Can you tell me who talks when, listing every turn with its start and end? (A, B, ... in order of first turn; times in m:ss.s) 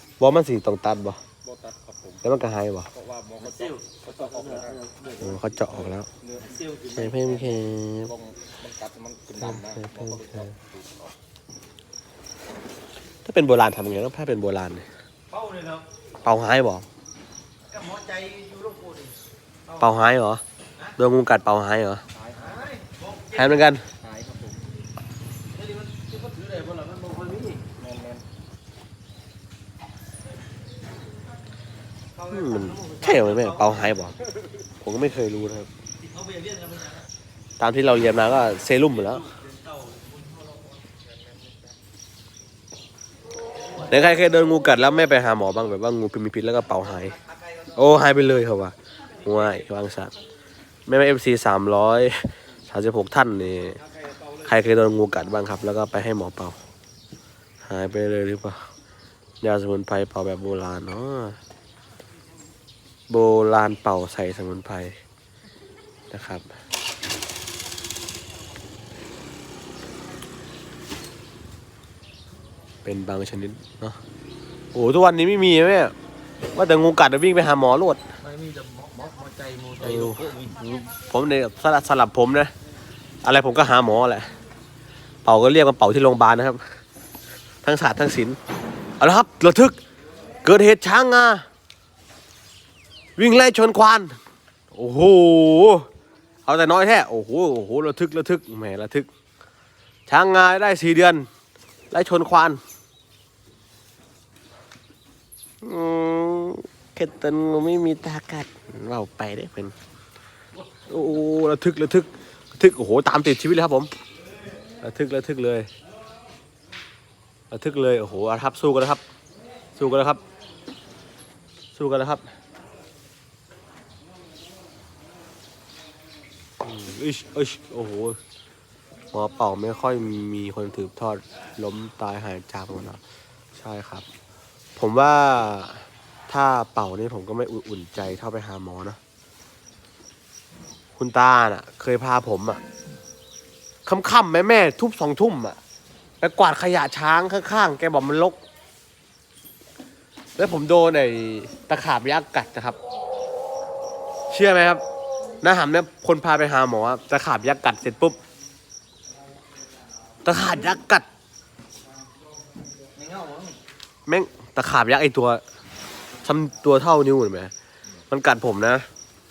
0:00.2-0:01.2 A
0:01.4-0:02.2 B
0:02.2-0:02.9 A
0:02.9-0:04.8 B
0:03.4-0:07.7 C
0:05.2-0:06.1 A
0:06.2-0:06.5 B
0:06.9-0:08.1 A
0:07.9-0:11.1 B
0:09.4-0:10.5 A
0:13.2-0:14.8 A
0:15.3-0:15.8 C
0:16.2-0:16.8 A
0:17.7-0:19.9 C
0:19.8-0:20.4 A
0:21.0-0:22.0 A
0:22.1-0:22.6 B
0:22.3-0:23.7 C
0:23.3-0:23.8 A
0:24.0-0:24.6 B
0:25.5-0:27.6 C
0:27.8-0:28.2 B
0:32.1-0:34.0 C
0:32.3-0:34.2 A
0:34.8-0:35.7 A
0:36.0-0:37.0 C
0:37.6-0:39.3 A
0:38.8-0:40.8 C
0:43.8-0:47.2 A
0:46.7-0:47.8 C
0:47.7-0:50.1 A
0:49.2-0:49.6 C
0:50.9-0:53.8 A
0:53.6-0:54.6 C
0:54.4-0:56.6 A
0:57.6-0:58.6 A
0:59.4-1:01.4 A
1:03.1-1:04.9 A
1:06.1-1:06.4 A
1:12.8-1:14.0 A
1:14.7-1:15.9 A
1:16.5-1:18.0 A
1:18.2-1:20.6 C
1:19.8-1:22.5 A
1:23.2-1:24.3 A
1:25.2-1:26.6 A
1:27.6-1:28.4 A
1:29.0-1:29.8 A
1:30.4-1:31.4 A
1:33.2-1:34.2 A
1:34.7-1:35.9 A
1:36.4-1:39.1 A
1:40.1-1:41.3 A
1:41.9-1:42.6 A
1:45.6-1:49.7 A
1:50.9-1:53.9 A
1:54.8-1:55.7 A
1:57.5-1:59.0 A
1:59.8-2:00.2 A
2:01.7-2:02.2 A
2:06.6-2:08.2 A
2:09.1-2:13.0 A
2:13.5-2:14.0 A
2:14.8-2:19.0 A
2:21.0-2:22.6 A
2:23.8-2:25.6 A
2:26.2-2:28.4 A
2:30.4-2:32.8 A
2:34.3-2:34.8 A
2:35.4-2:38.2 A
2:40.2-2:41.0 A
2:43.0-2:43.6 C
2:44.0-2:45.4 A
2:46.2-2:47.5 A
2:48.1-2:48.9 A